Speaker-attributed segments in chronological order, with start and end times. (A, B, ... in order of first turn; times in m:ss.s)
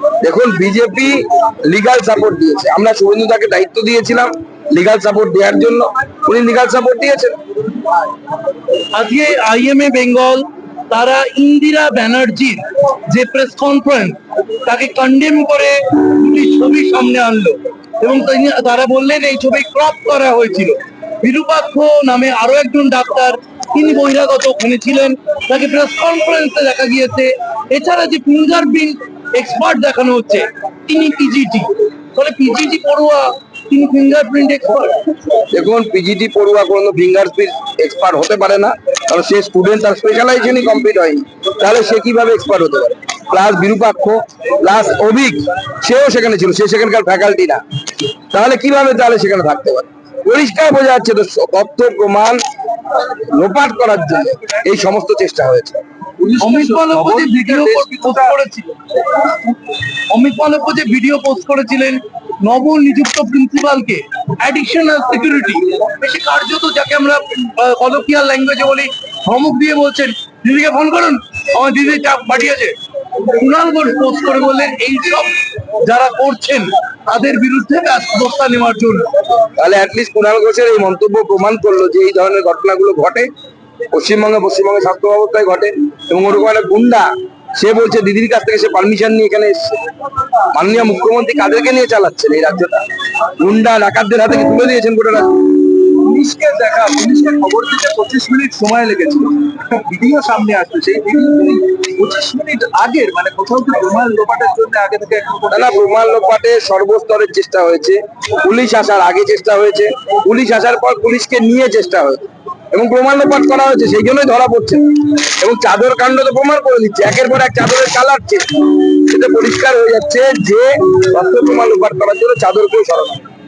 0:00.2-0:07.3 A
0:08.9-0:35.0 B
0:35.5-0:47.6 A
0:48.3-0:52.4 A
0:52.9-0:55.8 A
0:56.2-0:58.4 C
0:56.4-1:12.8 B
1:13.3-1:19.1 B
1:19.6-1:23.3 A
1:23.9-1:29.8 A
1:30.5-1:32.8 A
1:33.4-1:35.4 A
1:36.0-1:45.8 C
1:45.5-2:03.2 A